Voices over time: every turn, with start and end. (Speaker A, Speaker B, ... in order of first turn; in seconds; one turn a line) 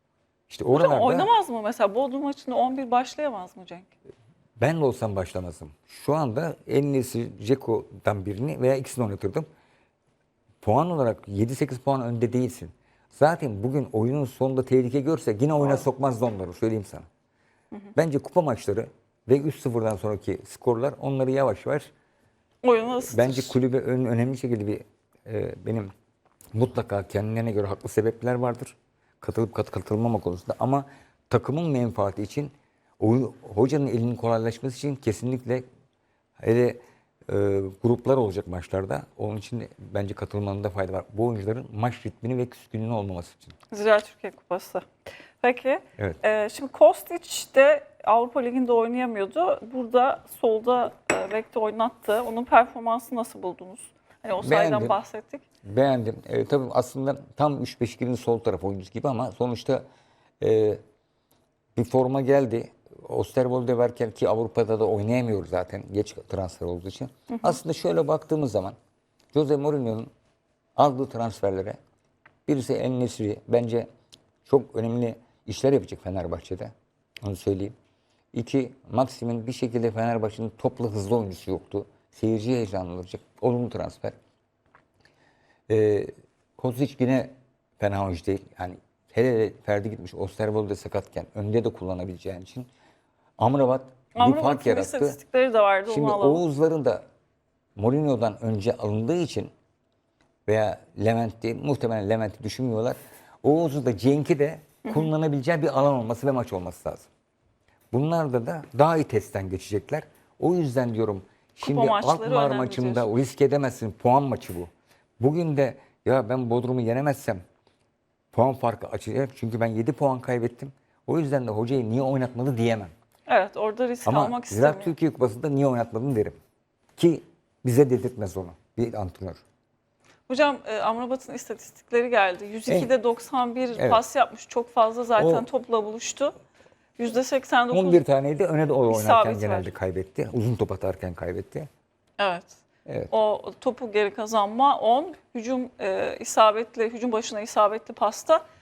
Speaker A: 0.5-1.3
Speaker B: 0.7-3.9
Speaker A: 4.6-9.5
Speaker A: 10.6-17.1
Speaker A: 17.9-21.9
Speaker B: 22.6-23.5
Speaker A: 22.9-25.9
Speaker A: 26.5-35.6
Speaker A: 36.4-43.5
Speaker B: 43.7-55.5
Speaker A: 54.4-55.0
Speaker A: 55.6-59.8
Speaker A: 60.4-60.8
Speaker A: 61.8-68.7
Speaker A: 69.3-70.1
Speaker A: 70.8-71.8
Speaker A: 72.5-73.9
Speaker A: 74.4-77.7
Speaker A: 78.3-84.2
Speaker A: 85.7-92.7
Speaker A: 93.4-95.2
Speaker B: 94.1-96.4
Speaker A: 95.9-97.0
Speaker A: 97.8-99.5
Speaker A: 100.5-107.1
Speaker A: 107.9-117.4
Speaker B: 111.6-113.1
Speaker A: 118.3-122.9
Speaker B: 123.3-124.9
Speaker A: 124.0-126.4
Speaker A: 127.0-129.4
Speaker B: 130.3-136.3
Speaker A: 132.7-132.9
Speaker A: 133.7-134.0
Speaker A: 135.2-135.4
Speaker B: 137.0-138.0
Speaker A: 137.7-141.7
Speaker B: 138.9-139.7
Speaker B: 142.2-142.6
Speaker B: 143.1-148.4